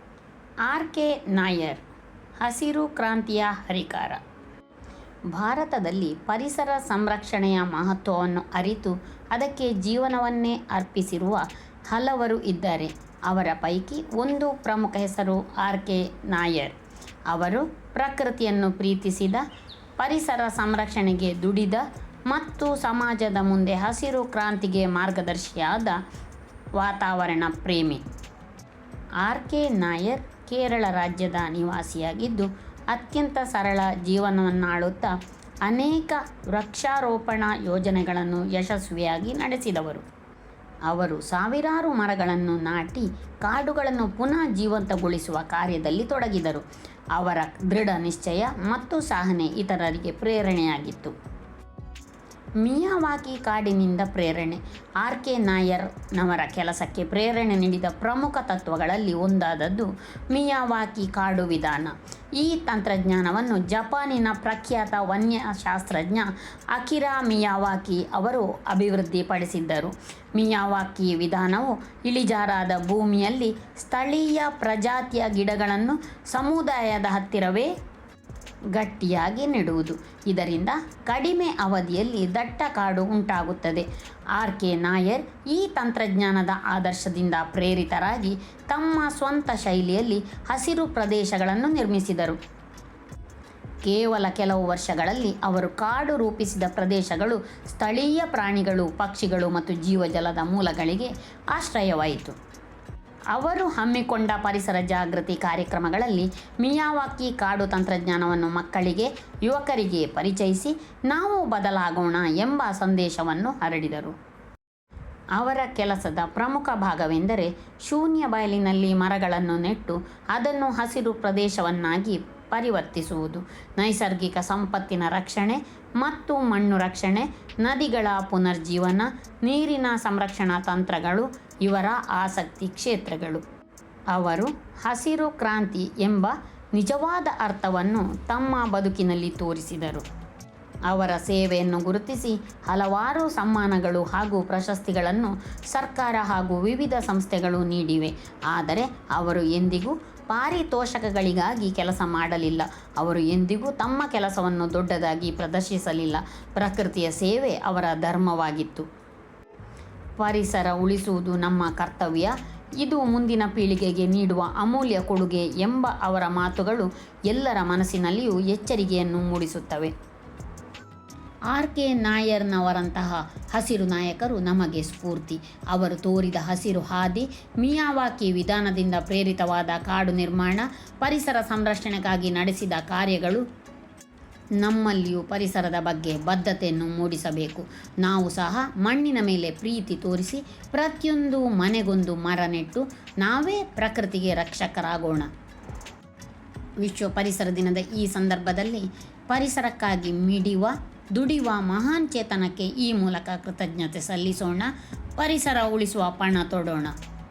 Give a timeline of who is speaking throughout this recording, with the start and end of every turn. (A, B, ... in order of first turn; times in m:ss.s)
0:00.7-0:01.8 A
0:02.4-0:04.2 A
0:05.3-0:16.8 A
0:17.3-0:19.4 A
0:20.0-0:26.0 A
0:26.8-0:28.0 A
0:29.2-0:40.0 A
0:40.9-0:46.6 A
0:47.1-0:51.1 A
0:52.6-1:17.7 A
1:18.7-1:32.4 A
1:33.8-1:42.4 A
1:43.3-1:54.1 A
1:55.4-2:13.4 A
2:14.1-2:20.0 A
2:20.9-2:38.9 A
2:40.2-2:49.9 A
2:51.5-3:03.4 A
3:04.6-3:15.3 A
3:16.8-3:26.9 A